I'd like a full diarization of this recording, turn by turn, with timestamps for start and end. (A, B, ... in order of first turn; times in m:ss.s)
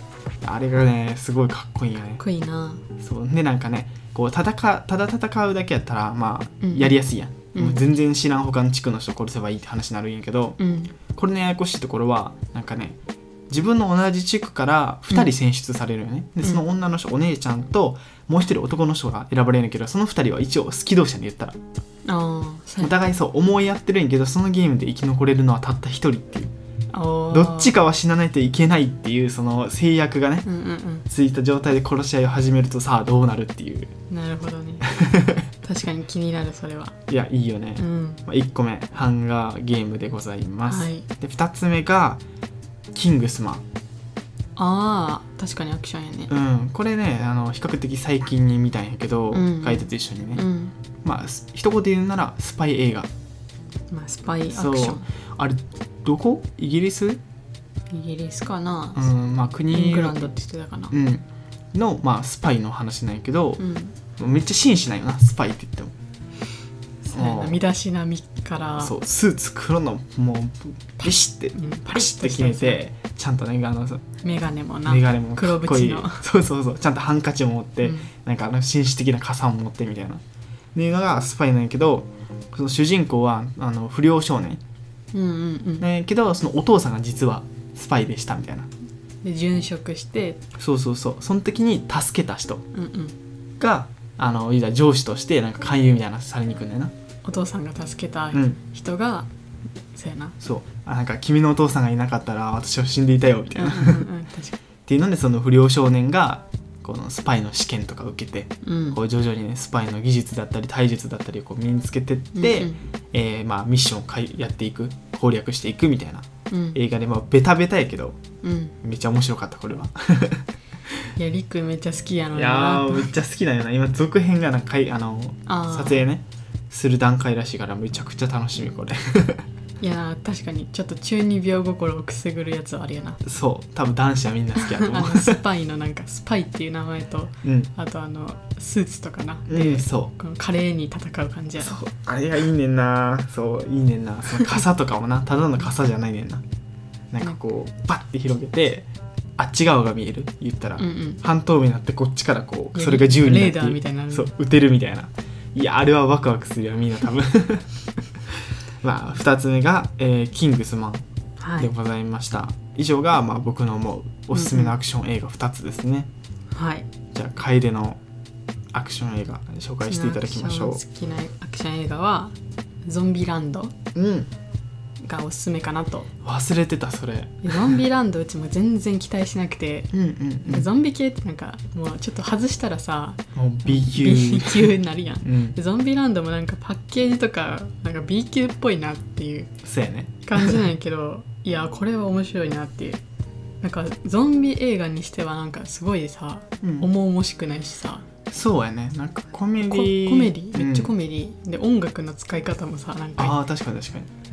0:00.4-0:02.2 A
0:02.2-0:02.8 B
0:03.0-0:10.6 A
0:06.6-0:07.0 B
0:07.5-0:07.8 B
0:10.6-0:11.0 B
0:11.1-0:13.0 A
0:13.5-0:21.6 A
0:22.0-0:23.0 B
0:22.8-0:26.5 A
0:26.9-0:27.8 B
0:27.3-0:30.5 A
0:30.4-0:31.0 B
0:31.1-0:33.9 A
0:34.1-0:34.9 B
0:34.9-0:35.5 A
0:35.6-0:36.9 B
0:37.1-0:42.2 A
0:37.8-0:38.2 B
0:40.6-0:41.1 B
0:42.9-0:43.6 A
0:44.6-0:46.3 B
0:46.3-0:50.4 A
0:49.3-0:50.7 B
0:51.0-0:53.1 A
0:53.9-0:55.0 B
0:54.5-0:57.2 A
0:57.9-0:59.1 B
0:58.9-1:00.3 A
0:59.7-1:00.9 B
1:00.9-1:03.6 A
1:03.6-1:04.0 B
1:04.2-1:05.9 A
1:07.0-1:08.9 B
1:07.1-1:07.6 A
1:08.8-1:14.0 A
1:11.0-1:12.8 B
1:14.2-1:16.2 B
1:14.8-1:20.2 A
1:17.8-1:18.1 B
1:20.7-1:24.6 A
1:25.1-1:25.9 B
1:25.8-1:28.7 A
1:29.2-1:30.4 B
1:30.6-1:32.6 A
1:32.7-1:33.1 B
1:33.6-1:36.9 A
1:37.2-1:39.3 B
1:38.3-1:38.6 A
1:39.9-1:40.3 B
1:40.4-1:44.0 A
1:43.5-1:44.6 B
1:44.8-1:58.2 A
1:48.6-1:49.0 B
1:52.3-1:52.8 B
1:56.5-1:56.8 B
1:58.4-1:58.8 B
1:58.8-2:00.4 A
2:01.2-2:03.1 B
2:02.3-2:09.4 A
2:05.4-2:06.0 B
2:09.8-2:13.2 B
2:13.2-2:15.4 A
2:14.6-2:21.8 B
2:17.4-2:17.7 A
2:19.5-2:20.1 A
2:21.6-2:26.4 A
2:27.1-2:37.7 A
2:30.8-2:31.2 B
2:32.7-2:34.3 B
2:38.8-2:41.0 A
2:41.4-2:41.7 B
2:41.6-2:46.1 A
2:44.3-2:44.8 B
2:46.5-2:46.9 B
2:47.1-2:48.0 A
2:48.7-2:50.8 A
2:49.9-2:53.7 B
2:53.9-2:54.3 A
2:55.0-2:56.1 B
2:56.2-2:57.8 A
2:57.4-2:59.9 B
2:59.9-3:00.7 A
3:00.4-3:09.5 B
3:03.3-3:05.6 A
3:09.6-3:10.6 A
3:10.2-3:13.0 B
3:13.6-3:18.0 B
3:16.6-3:16.9 A
3:18.3-3:20.9 A
3:19.6-3:23.4 B
3:23.2-3:24.1 A